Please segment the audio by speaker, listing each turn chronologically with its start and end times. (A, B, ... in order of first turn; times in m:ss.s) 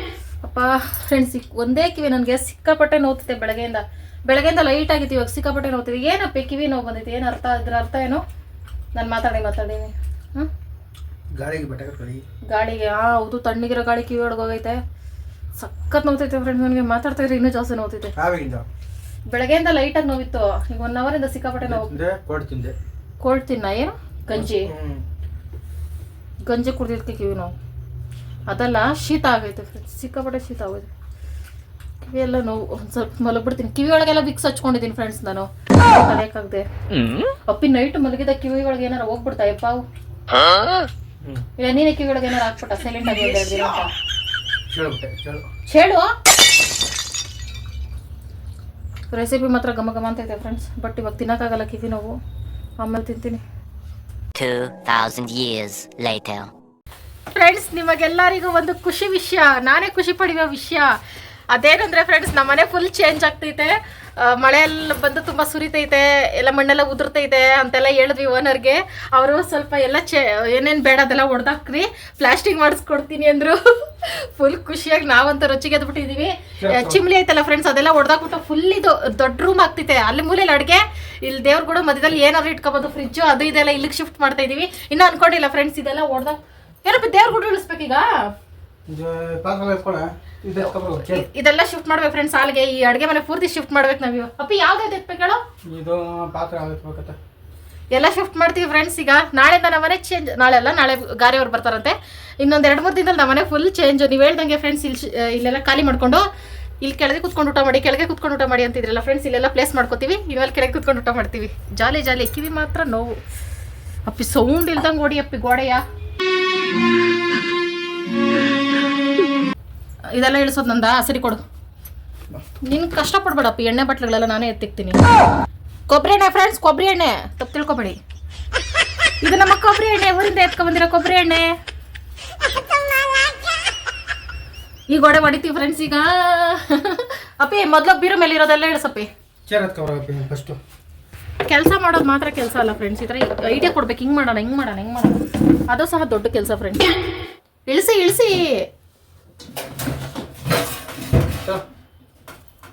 0:00.4-0:08.2 A
0:09.0-0:10.5 A
0:11.4-0:12.2 B
0:12.5-0:14.8 A
0:15.6-0:18.1 A
0:18.2-0:18.7 B
0:19.3-0:22.0 A
0:21.6-0:22.8 B
0:23.2-0:24.7 A
0:24.3-0:25.0 B
0:26.5-0:27.5 A
0:28.5-0:30.9 A
0:32.0-0:36.6 A
0:37.5-0:39.8 A
0:41.6-0:43.9 A
0:43.0-0:43.9 B
0:44.7-0:45.5 B
0:45.7-0:46.1 A
0:49.1-0:52.1 A
0:52.8-0:53.4 A
0:54.4-0:56.5 C
0:57.3-1:00.9 A
1:01.5-1:28.1 A
1:16.6-1:17.0 B
1:28.9-1:31.3 B
1:31.0-1:35.4 A
1:35.7-1:37.2 B
1:37.9-1:46.2 A
1:46.8-1:53.2 A
1:54.1-1:55.8 A
2:00.2-2:01.4 A
2:02.7-2:05.0 A
2:05.9-2:08.0 A
2:09.2-2:11.5 A
2:14.9-2:19.1 A
2:19.5-2:20.6 B
2:21.5-2:27.0 A
2:27.7-2:28.6 A